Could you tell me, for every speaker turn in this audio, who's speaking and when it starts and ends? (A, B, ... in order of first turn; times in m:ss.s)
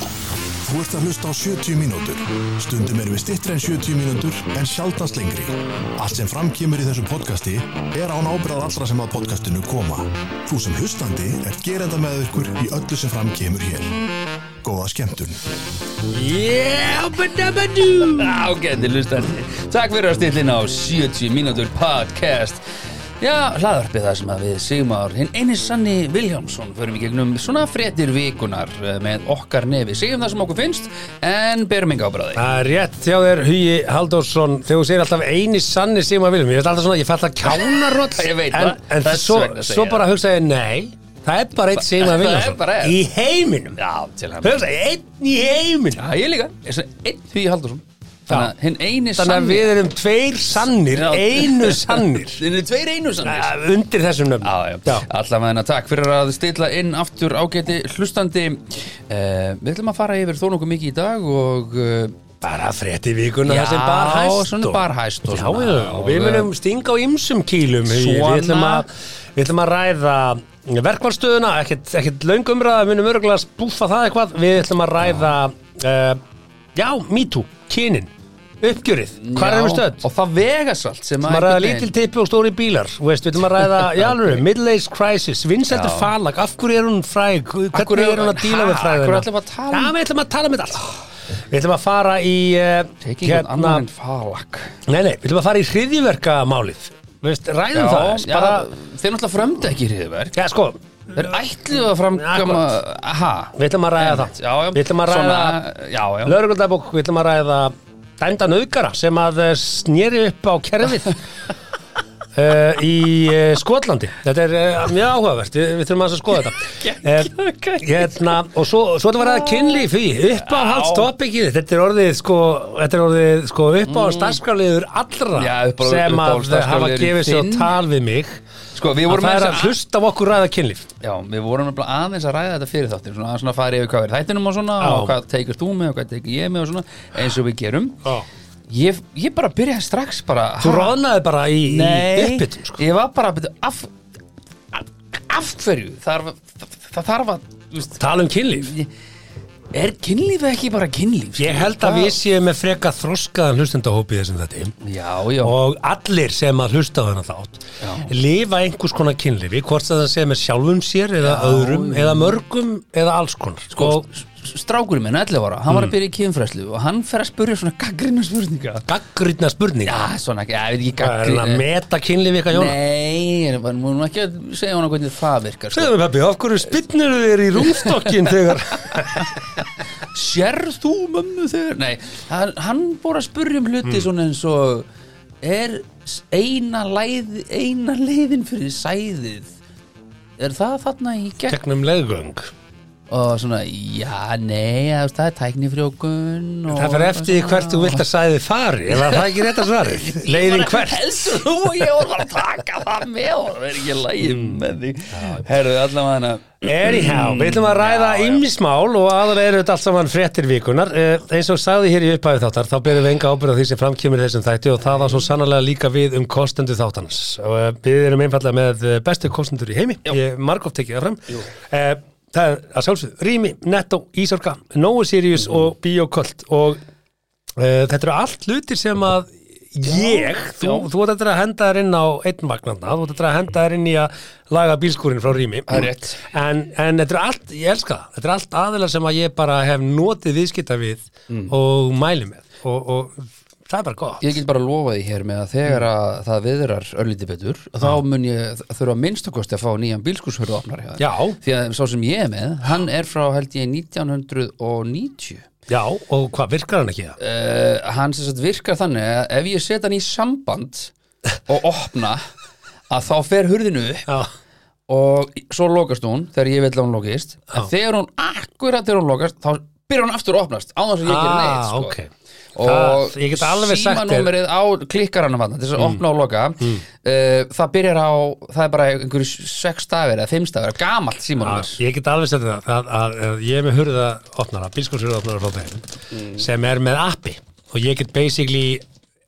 0:00.6-0:14.0 A
0:14.6-0:15.4 A
0:16.1-0:18.5 B
0:18.1-0:22.6 C
0:23.2-0:32.4 C
0:32.4-0:43.8 B
0:37.4-0:40.0 C
0:41.7-0:43.0 C
0:43.8-0:44.7 C
0:44.4-0:46.0 B
0:45.9-0:49.7 C
0:49.2-0:52.4 B
0:50.6-0:53.5 C
0:53.2-0:55.0 B
0:54.4-1:02.2 C
1:02.4-1:16.2 B
1:03.4-1:06.5 C
1:07.8-1:08.9 C
1:16.7-1:18.1 B
1:18.6-1:20.0 B
1:19.2-1:21.9 C
1:21.2-1:33.8 B
1:23.6-1:24.4 C
1:25.7-1:26.1 C
1:27.7-1:29.9 C
1:33.0-1:34.8 C
1:34.8-1:38.7 B
1:37.7-1:40.3 C
1:40.4-1:41.4 B
1:41.1-1:46.4 C
1:41.9-1:42.8 B
1:43.6-1:45.6 B
1:46.2-1:51.2 B
1:52.3-2:08.4 B
1:56.6-1:58.4 C
1:59.2-2:01.1 C
2:03.8-2:04.4 C
2:05.3-2:07.7 C
2:08.7-2:09.8 C
2:09.1-2:10.9 B
2:11.0-2:18.0 C
2:14.8-2:15.1 B
2:18.7-2:21.0 C
2:20.6-2:22.8 B
2:21.6-2:23.9 C
2:24.7-2:28.9 C
2:28.0-2:28.7 B
2:29.7-2:32.2 C
2:31.4-2:34.7 B
2:34.8-2:35.5 C
2:35.4-2:44.1 B
2:37.8-2:38.1 C
2:41.2-2:42.4 C
2:43.7-2:48.8 C
2:48.9-2:50.0 B
2:49.8-2:51.6 C
2:51.0-2:52.8 B
2:52.5-2:55.9 C
2:55.7-2:59.6 B
2:57.6-2:58.3 C
2:58.8-2:59.4 C
3:00.0-3:04.9 C
3:05.4-3:09.5 C
3:10.4-3:11.6 C
3:11.5-3:12.5 B
3:13.1-3:18.0 C
3:16.7-3:21.3 B
3:18.9-3:28.4 C
3:24.2-3:24.6 B
3:25.1-3:25.4 B
3:26.6-3:46.8 B
3:34.9-3:35.2 C
3:47.6-4:04.4 B
3:49.8-3:50.9 C
3:55.7-3:56.2 C
4:01.3-4:01.5 C
4:04.2-4:15.5 C
4:11.0-4:11.4 B
4:15.7-4:17.2 B
4:17.2-4:20.9 C
4:21.4-4:22.2 C
4:22.9-4:24.1 C
4:24.9-4:31.9 C
4:31.0-4:32.1 B
4:32.6-4:41.8 C
4:32.6-4:34.3 B
4:41.4-4:48.8 B
4:46.1-4:46.5 C